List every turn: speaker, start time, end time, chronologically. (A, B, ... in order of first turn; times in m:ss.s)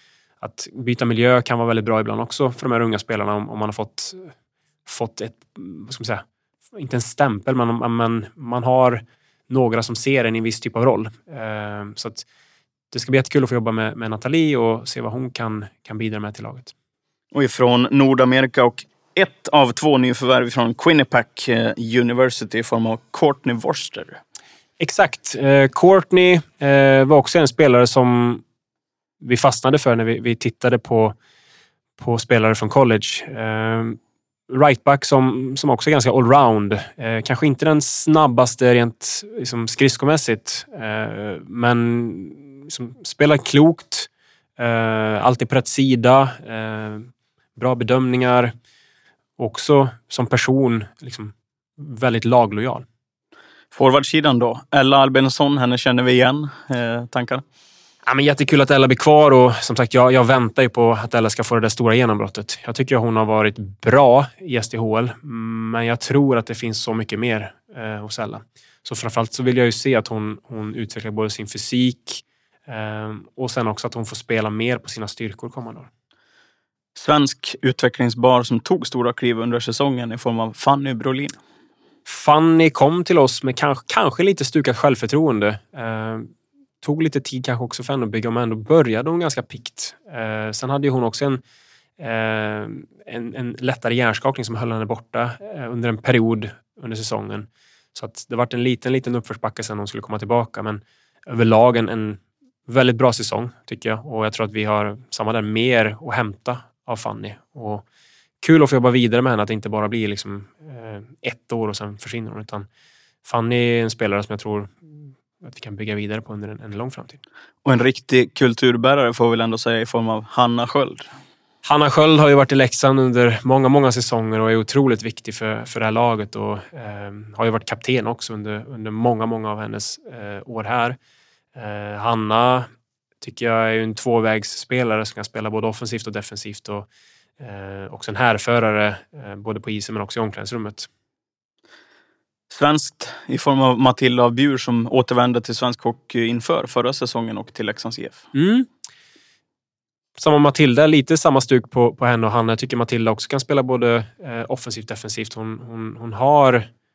0:00.4-0:04.3 A
0:04.8-0:12.2 A
0:12.9-0:16.7 A
0:17.3-0:24.2 B
0:24.8-0:28.4 A
0:29.2-0:31.1 A
0:32.0-0:34.0 A
0:34.5-0:48.5 A
0:49.4-0:52.8 A
0:53.7-0:57.4 B
0:58.0-1:15.9 A
1:17.0-1:21.4 B
1:22.0-1:31.4 A
1:32.0-1:47.8 A
1:48.4-1:52.6 A
1:53.2-1:57.2 A
1:57.6-2:01.1 B
2:01.6-2:11.0 A
2:11.5-2:12.7 A
2:13.2-2:16.9 A
2:17.4-2:20.9 A
2:22.5-2:28.2 B
2:28.3-2:28.7 A
2:30.2-2:36.7 A